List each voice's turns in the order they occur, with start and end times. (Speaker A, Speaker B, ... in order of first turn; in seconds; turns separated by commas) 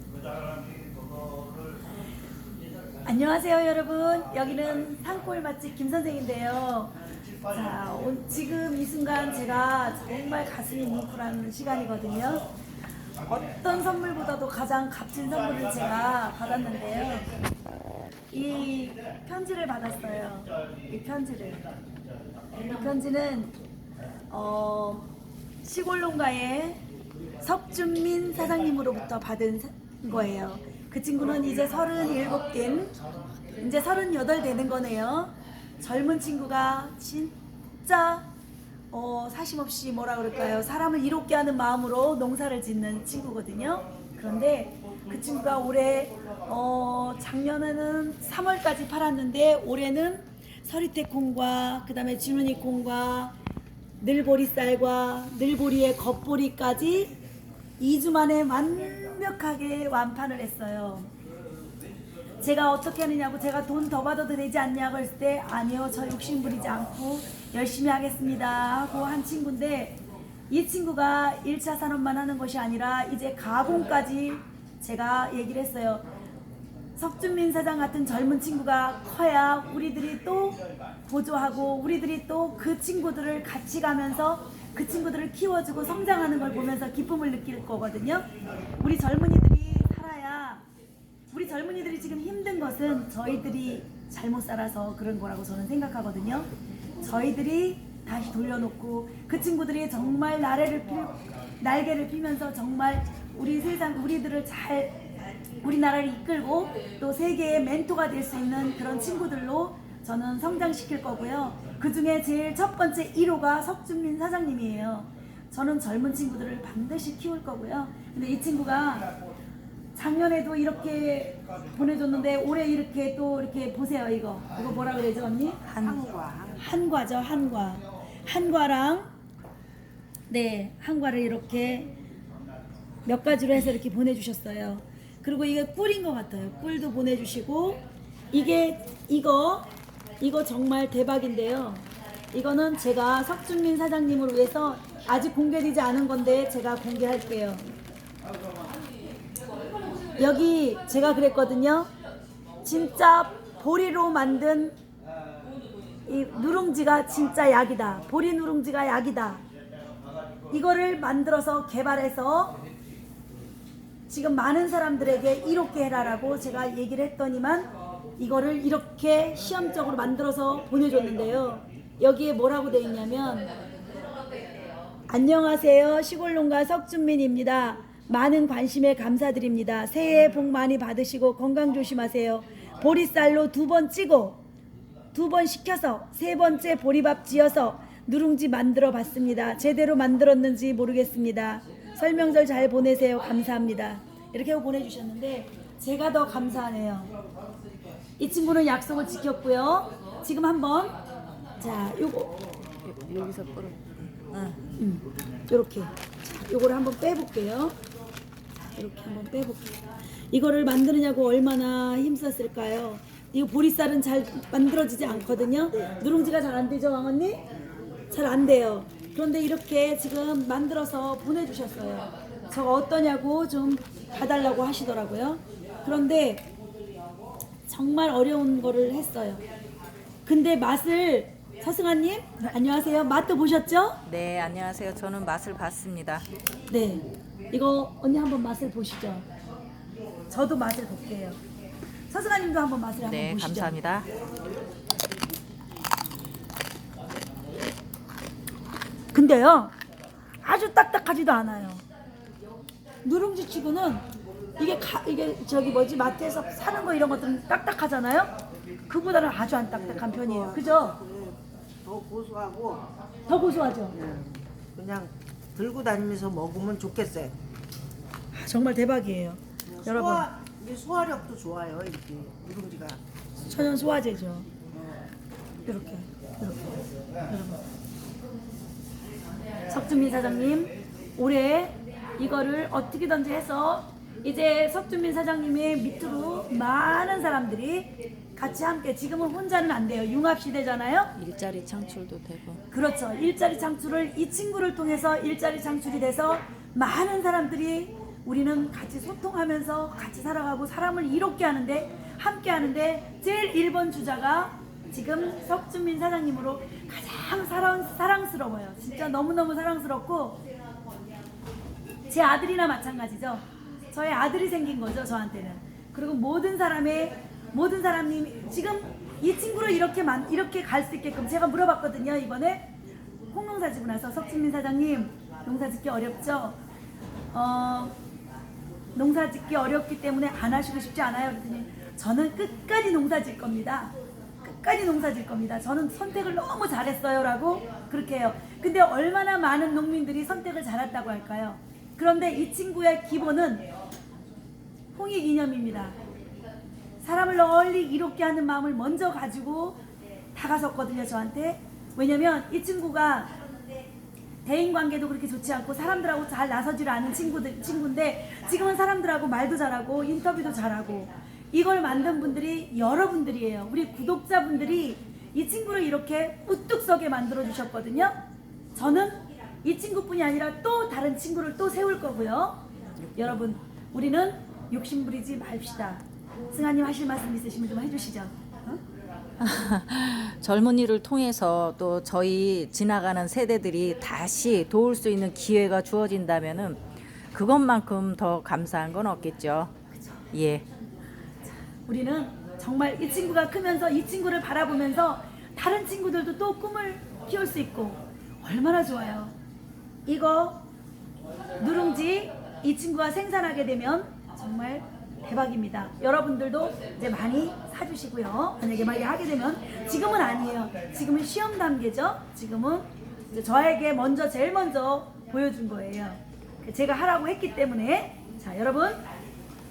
Speaker A: 3.0-12.5, Speaker A: 13.2-17.3, Speaker A: 18.3-21.7, Speaker A: 22.6-23.6, Speaker A: 24.3-25.1, Speaker A: 25.6-26.8, Speaker A: 27.4-33.0, Speaker A: 33.6-38.3, Speaker A: 38.9-53.4, Speaker A: 54.0-57.2, Speaker A: 57.8-61.1, Speaker A: 62.4-76.1, Speaker A: 77.0-90.7, Speaker A: 91.3-96.5, Speaker A: 97.0-119.1, Speaker A: 120.0-125.7, Speaker B: 125.7-126.6, Speaker A: 126.6-129.1, Speaker A: 130.3-131.9, Speaker A: 133.1-147.7, Speaker A: 150.2-151.9, Speaker A: 152.6-154.8, Speaker A: 156.1-159.4, Speaker A: 160.5-162.6, Speaker A: 164.1-173.5, Speaker A: 175.1-184.4, Speaker A: 185.1-197.1, Speaker A: 198.2-201.0, Speaker A: 201.6-202.4, Speaker C: 202.8-204.6, Speaker A: 204.8-207.8, Speaker A: 208.8-209.8, Speaker A: 210.3-217.4, Speaker A: 218.1-226.5, Speaker A: 227.7-229.4, Speaker A: 230.3-234.0, Speaker C: 234.1-236.3, Speaker A: 236.7-239.3, Speaker A: 240.3-241.4, Speaker A: 242.1-243.8, Speaker C: 243.0-244.1, Speaker A: 249.1-249.8, Speaker A: 250.4-251.8, Speaker A: 253.0-254.1, Speaker A: 254.6-258.3, Speaker A: 258.9-261.0, Speaker B: 259.7-262.9, Speaker A: 263.3-264.0, Speaker B: 263.9-267.4, Speaker A: 268.3-270.3, Speaker B: 269.7-273.0, Speaker A: 273.4-274.5, Speaker A: 275.7-277.6, Speaker A: 279.7-291.1, Speaker C: 291.2-292.6, Speaker A: 292.7-310.4, Speaker A: 312.1-322.7, Speaker A: 323.3-326.6, Speaker A: 327.3-328.0, Speaker A: 328.9-343.7, Speaker A: 344.9-346.0, Speaker A: 347.0-349.8, Speaker A: 350.3-353.4, Speaker A: 354.4-368.2, Speaker A: 368.8-372.6, Speaker A: 373.1-378.8, Speaker C: 379.4-389.7, Speaker C: 390.3-390.6, Speaker A: 391.9-399.3, Speaker A: 400.1-400.6, Speaker A: 401.6-419.0